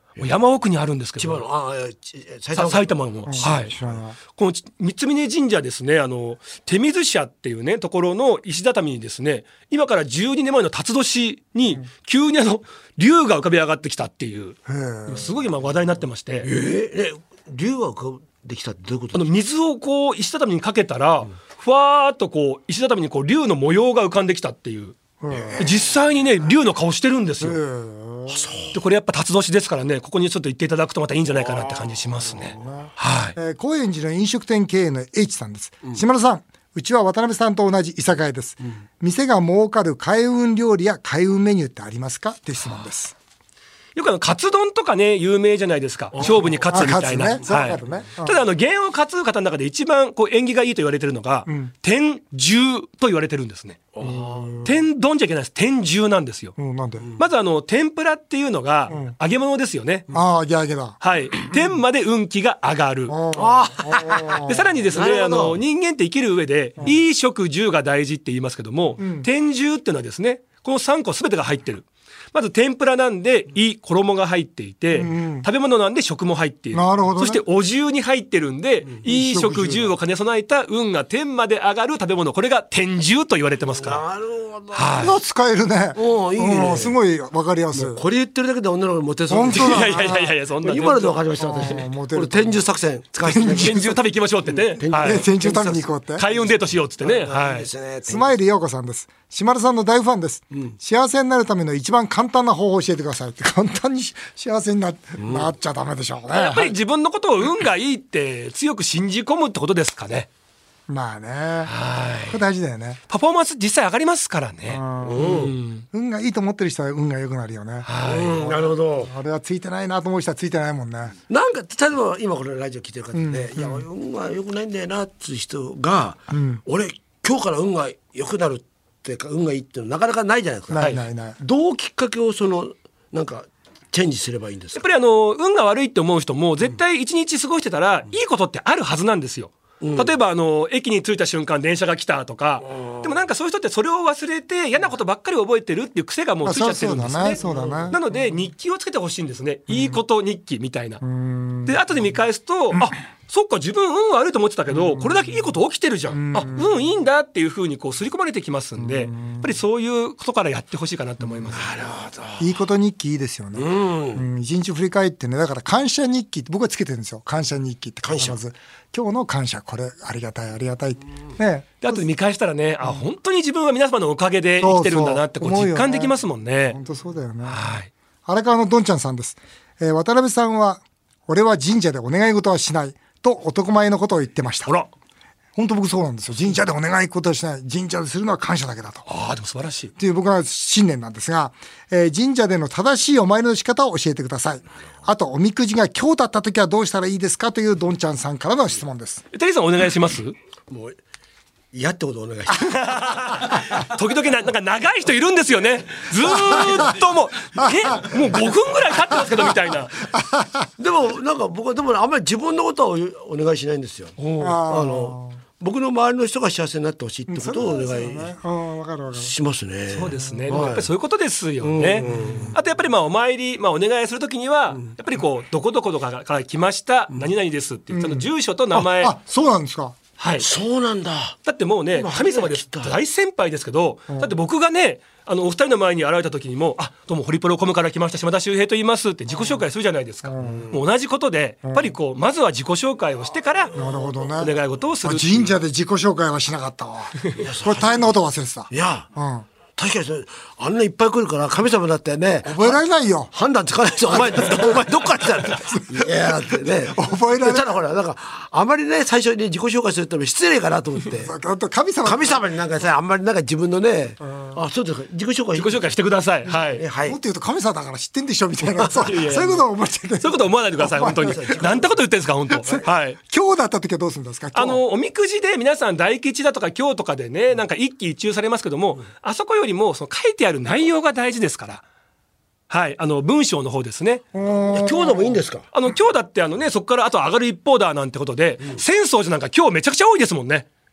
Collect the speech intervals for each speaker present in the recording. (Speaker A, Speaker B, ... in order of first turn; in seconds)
Speaker A: 0.2-1.4, 2.5-3.7, 4.3-16.5, 19.1-25.0, 25.6-27.6, 28.7-33.4, 44.0-53.9, 54.6-56.5, 57.2-60.1, 61.0-63.2, 64.5-84.0, 84.7-85.2, 89.5-91.2, 93.5-95.3, 96.2-97.7, 106.3-110.3, 111.7-112.4, 113.1-115.8, 117.8-118.5, 134.8-151.0, 151.7-161.7, 171.8-176.8, 177.5-177.9, 189.1-189.9, 199.3-200.4, 202.6-210.0, 214.2-214.6, 219.9-229.2, 230.2-230.5, 231.4-243.7, 244.4-245.6, 265.6-266.8, 269.0-269.6, 270.2-273.2, 274.6-281.8, 282.7-284.2, 285.7-290.7
Speaker B: 1.2-4.0, 16.4-19.3, 28.3-28.8, 31.4-31.9, 46.2-46.8, 47.4-47.8, 53.9-54.6, 63.3-65.6, 83.8-84.9, 86.0-87.0, 87.7-90.0, 90.6-94.0, 94.5-96.4, 97.0-98.4, 105.2-105.5, 115.0-115.6, 118.0-119.1, 121.3-134.8, 139.8-140.1, 142.7-143.0, 147.4-148.0, 161.6-162.5, 163.6-164.3, 168.0-168.4, 200.7-201.0, 201.7-203.0, 210.8-218.3, 219.2-220.9, 221.6-222.6, 230.4-231.4, 231.9-233.0, 240.4-240.8, 243.7-244.2, 247.4-248.1, 248.7-249.1, 249.8-252.8, 253.3-261.3, 262.0-265.9, 266.8-267.2, 268.8-269.1, 271.0-272.0, 284.7-285.7
Speaker C: 3.3-4.2, 14.7-15.4, 25.2-25.9, 27.4-28.5, 32.5-43.1, 46.7-48.4, 51.5-51.7, 54.0-54.8, 56.6-57.1, 58.9-59.2, 60.1-61.0, 63.1-64.7, 69.0-69.3, 74.9-75.5, 76.7-77.4, 79.1-79.9, 85.0-88.0, 89.3-90.3, 91.4-92.7, 93.2-94.0, 95.0-96.3, 98.1-106.8, 110.9-111.7, 112.3-113.0, 114.7-121.2, 123.2-123.9, 126.3-126.6, 130.7-131.4, 146.4-148.0, 149.7-150.0, 151.0-151.8, 154.7-155.3, 156.1-156.8, 158.8-159.5, 162.4-172.0, 174.6-176.2, 176.7-177.6, 178.3-184.7, 185.6-189.1, 190.0-199.2, 210.1-210.7, 214.4-215.4, 217.3-219.3, 220.1-220.6, 222.0-222.6, 227.9-230.0, 240.2-240.7, 241.7-241.9, 243.8-244.5, 245.0-249.5, 252.4-253.3, 254.1-254.8, 255.5-256.2, 256.8-257.8, 261.2-262.4, 264.3-264.6, 267.1-271.6, 272.7-274.8, 284.3-285.4